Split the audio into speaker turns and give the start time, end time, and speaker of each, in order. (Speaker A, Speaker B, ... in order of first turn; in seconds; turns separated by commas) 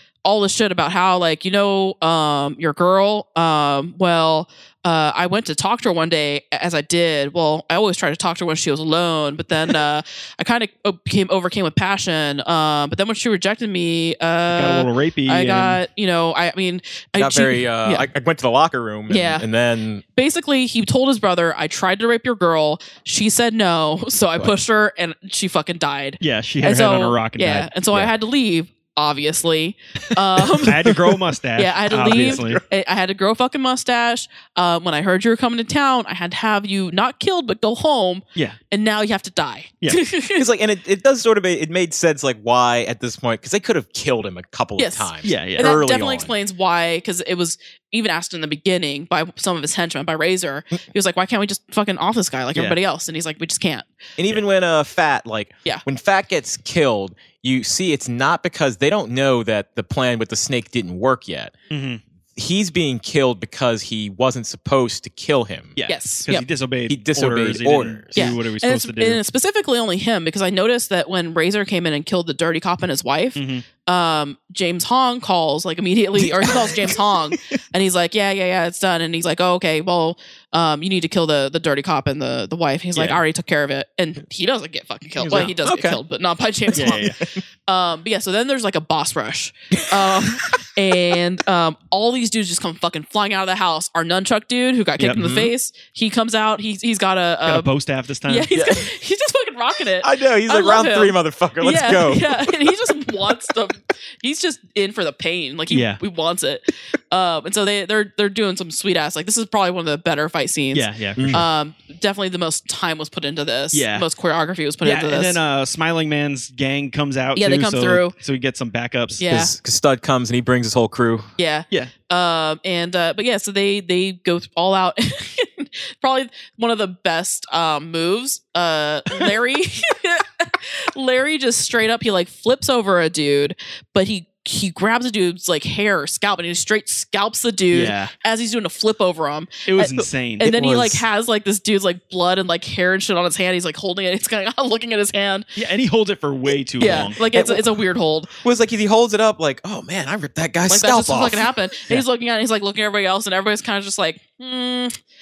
Speaker A: 0.2-18.1, Speaker B: 14.5-15.8, Speaker C: 17.2-20.0, Speaker A: 19.1-19.4, Speaker A: 20.1-30.9, Speaker B: 26.2-27.7, Speaker B: 30.5-32.6, Speaker A: 31.6-40.5, Speaker C: 31.9-32.6, Speaker C: 40.3-46.3, Speaker A: 44.8-53.9, Speaker B: 45.2-45.7, Speaker C: 54.2-61.5, Speaker B: 61.7-62.0, Speaker C: 62.4-65.8, Speaker B: 65.8-69.2, Speaker A: 65.9-66.4, Speaker C: 66.9-68.3, Speaker A: 68.1-97.7, Speaker B: 73.3-73.6, Speaker C: 76.2-77.3, Speaker C: 85.2-86.0, Speaker C: 86.7-87.1, Speaker B: 86.7-87.2, Speaker C: 89.8-90.1, Speaker C: 95.1-95.5, Speaker B: 97.5-98.5, Speaker A: 98.3-115.4, Speaker C: 98.5-98.9, Speaker C: 100.0-102.8, Speaker B: 105.7-106.0, Speaker B: 110.7-111.4, Speaker C: 111.2-111.4, Speaker B: 113.7-114.0, Speaker B: 114.8-119.2, Speaker A: 117.3-118.1, Speaker A: 119.2-119.5, Speaker C: 119.2-121.3, Speaker A: 121.4-145.4, Speaker B: 137.7-138.1, Speaker B: 139.7-141.0, Speaker B: 145.6-147.2, Speaker A: 146.8-148.3, Speaker C: 146.8-147.7, Speaker C: 148.4-151.5, Speaker A: 150.7-154.9